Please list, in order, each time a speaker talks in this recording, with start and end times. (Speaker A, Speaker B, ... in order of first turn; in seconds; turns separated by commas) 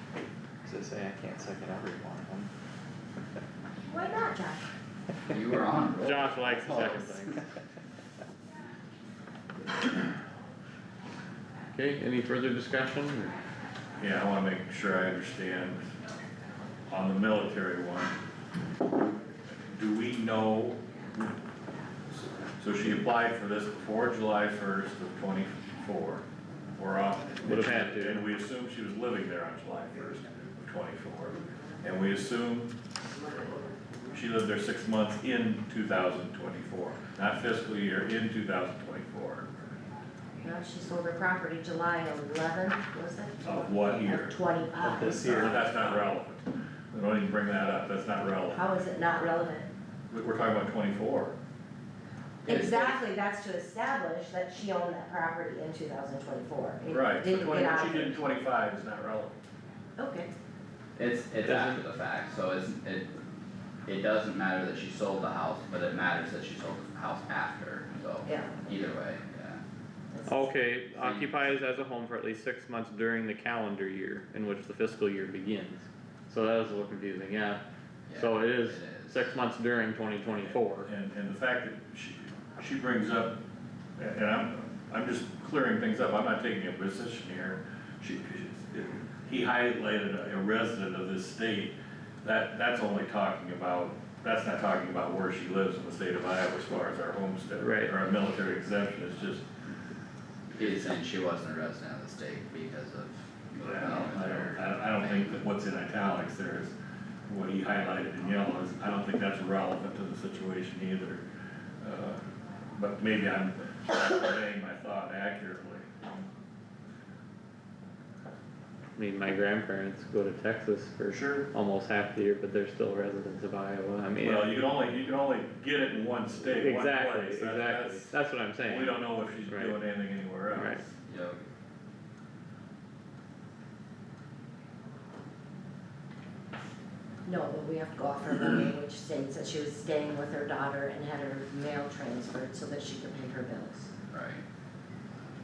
Speaker A: 0.6-2.5, Speaker B: 3.9-4.7, Speaker C: 5.3-7.3, Speaker D: 6.0-7.4, Speaker D: 11.7-13.3, Speaker E: 14.0-15.8, Speaker E: 16.9-18.1, Speaker E: 19.6-21.3, Speaker E: 22.6-26.2, Speaker E: 26.8-32.7, Speaker D: 27.4-28.3, Speaker E: 34.1-39.5, Speaker B: 40.4-45.7, Speaker E: 43.4-44.3, Speaker A: 44.8-45.8, Speaker E: 45.2-48.7, Speaker B: 48.5-49.7, Speaker E: 50.1-51.3, Speaker B: 52.5-58.2, Speaker C: 52.5-53.0, Speaker E: 56.9-59.4, Speaker B: 60.0-60.3, Speaker C: 61.0-63.1, Speaker D: 61.4-61.8, Speaker C: 63.9-69.6, Speaker B: 68.2-68.7, Speaker B: 70.1-70.5, Speaker D: 70.3-77.6, Speaker C: 70.9-71.5, Speaker C: 78.1-79.3, Speaker D: 78.1-80.9, Speaker E: 80.4-83.4, Speaker E: 84.0-99.4, Speaker D: 97.6-97.9, Speaker C: 100.6-105.3, Speaker E: 103.6-106.7, Speaker E: 107.3-111.2, Speaker E: 111.8-112.2, Speaker E: 112.8-116.1, Speaker D: 119.0-124.6, Speaker E: 121.1-121.5, Speaker E: 124.2-130.9, Speaker D: 126.5-129.8, Speaker D: 130.5-130.8, Speaker C: 131.1-131.4, Speaker B: 137.2-143.9, Speaker C: 144.1-144.4